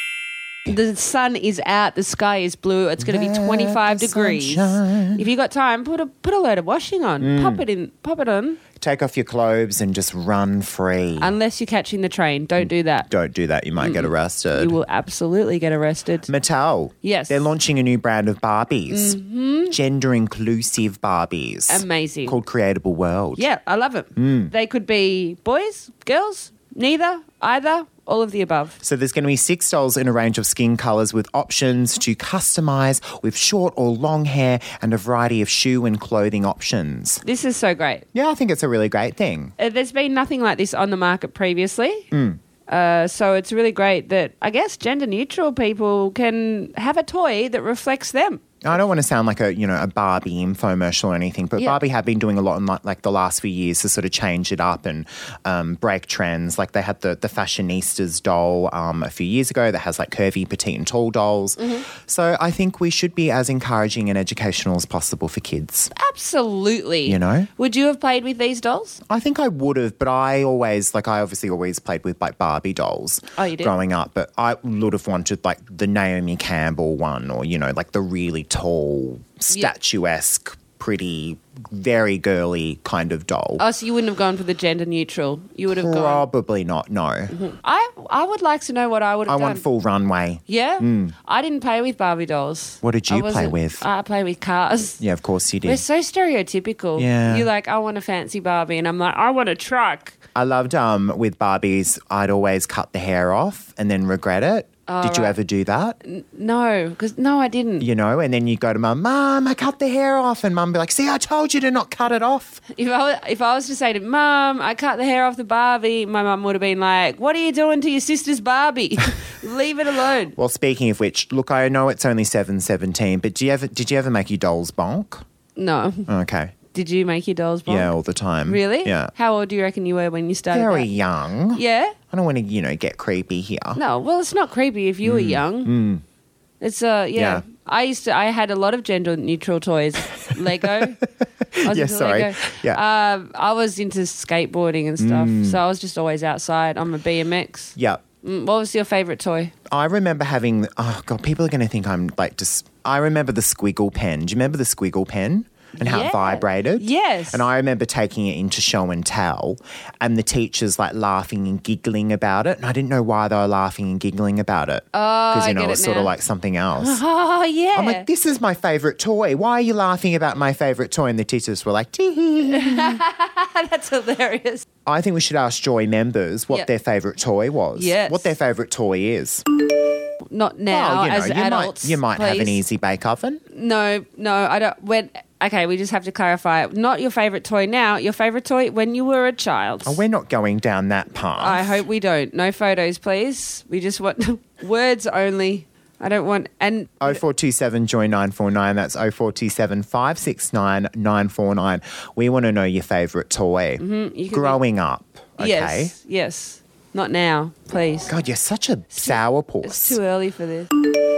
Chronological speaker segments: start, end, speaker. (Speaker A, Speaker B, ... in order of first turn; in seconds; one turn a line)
Speaker A: 0.7-8.6
Speaker B: 3.0-5.2
Speaker B: 7.2-7.7
Speaker B: 8.8-11.3
Speaker A: 11.2-13.1
Speaker B: 12.6-14.8
Speaker A: 13.8-16.3
Speaker B: 16.3-19.2
Speaker A: 17.0-17.5
Speaker A: 18.9-19.8
Speaker B: 19.7-23.4
Speaker A: 21.7-22.4
Speaker A: 23.4-28.8
Speaker B: 24.2-24.5
Speaker B: 28.8-37.2
Speaker A: 37.2-38.1
Speaker B: 38.1-39.5
Speaker A: 39.6-42.1
Speaker B: 42.1-42.4
Speaker A: 42.7-48.4
Speaker B: 48.6-65.9
Speaker A: 61.6-61.9
Speaker A: 66.0-69.0
Speaker B: 67.1-67.5
Speaker B: 69.1-83.6
Speaker A: 73.4-73.8
Speaker A: 83.6-86.3
Speaker B: 85.7-87.4
Speaker A: 87.3-89.6
Speaker B: 89.3-91.1
Speaker A: 90.5-95.0
Speaker B: 92.8-93.8
Speaker B: 95.0-95.8
Speaker A: 95.7-100.2
Speaker B: 97.0-97.5
Speaker B: 100.3-106.0
Speaker A: 104.9-105.4
Speaker A: 106.0-107.9
Speaker B: 107.8-112.6
Speaker A: 112.7-120.3
Speaker B: 120.4-125.2
Speaker A: 125.6-126.1
Speaker B: 126.1-126.5
Speaker A: 126.7-130.9
Speaker B: 127.7-129.1
Speaker B: 130.5-133.8
Speaker A: 131.5-132.0
Speaker A: 133.8-135.7
Speaker B: 135.0-136.0
Speaker A: 136.6-141.0
Speaker B: 137.2-137.4
Speaker B: 141.5-142.8
Speaker A: 141.7-149.5
Speaker B: 145.0-145.6
Speaker B: 147.8-148.0
Speaker B: 149.7-167.0
Speaker A: 155.8-157.5
Speaker A: 164.9-166.1
Speaker A: 166.8-168.1
Speaker B: 167.8-173.0
Speaker A: 172.5-174.7
Speaker B: 174.9-179.4
Speaker A: 177.7-178.3
Speaker A: 180.3-182.6
Speaker B: 180.7-183.4
Speaker A: 183.5-190.0
Speaker B: 189.9-191.8
Speaker A: 191.4-197.2
Speaker B: 197.0-205.9
Speaker A: 203.8-204.6
Speaker A: 205.4-208.1
Speaker B: 208.1-210.0
Speaker A: 208.9-210.7